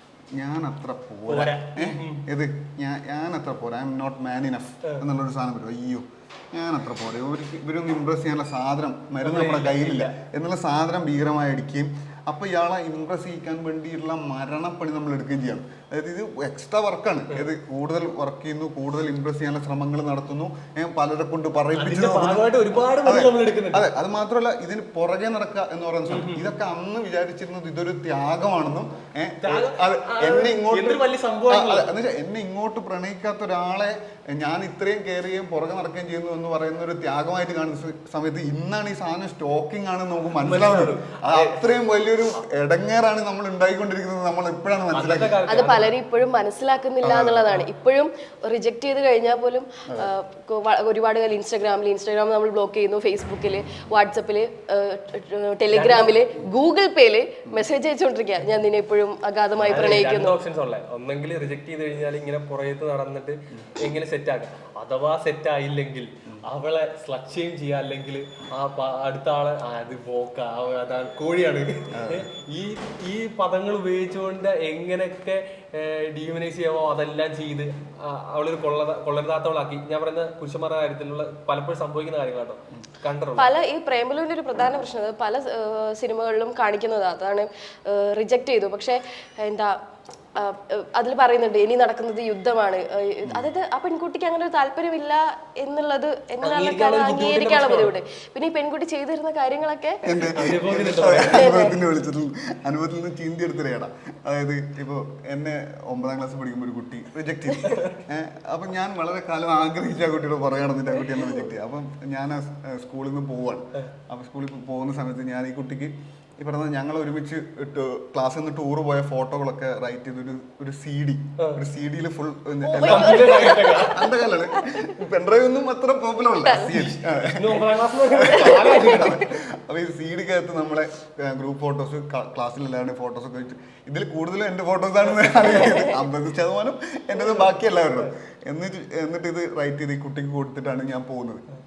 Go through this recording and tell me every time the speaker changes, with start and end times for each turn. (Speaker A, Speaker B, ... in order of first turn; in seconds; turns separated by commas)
Speaker A: 0.3-45.4, Speaker B: 1.3-2.2, Speaker B: 9.2-10.1, Speaker B: 21.7-23.9, Speaker B: 26.1-26.5, Speaker B: 29.4-31.9, Speaker B: 40.4-41.8, Speaker B: 44.9-46.0, Speaker C: 45.4-60.4, Speaker A: 47.0-47.5, Speaker B: 55.7-56.2, Speaker B: 59.6-83.5, Speaker A: 71.9-72.3, Speaker C: 83.4-89.8, Speaker C: 90.4-100.3, Speaker B: 96.4-98.0, Speaker A: 100.0-141.4, Speaker B: 100.3-101.5, Speaker C: 101.2-101.8, Speaker C: 122.6-124.8, Speaker B: 122.8-124.2, Speaker C: 126.4-126.8, Speaker B: 126.7-129.3, Speaker C: 128.2-129.2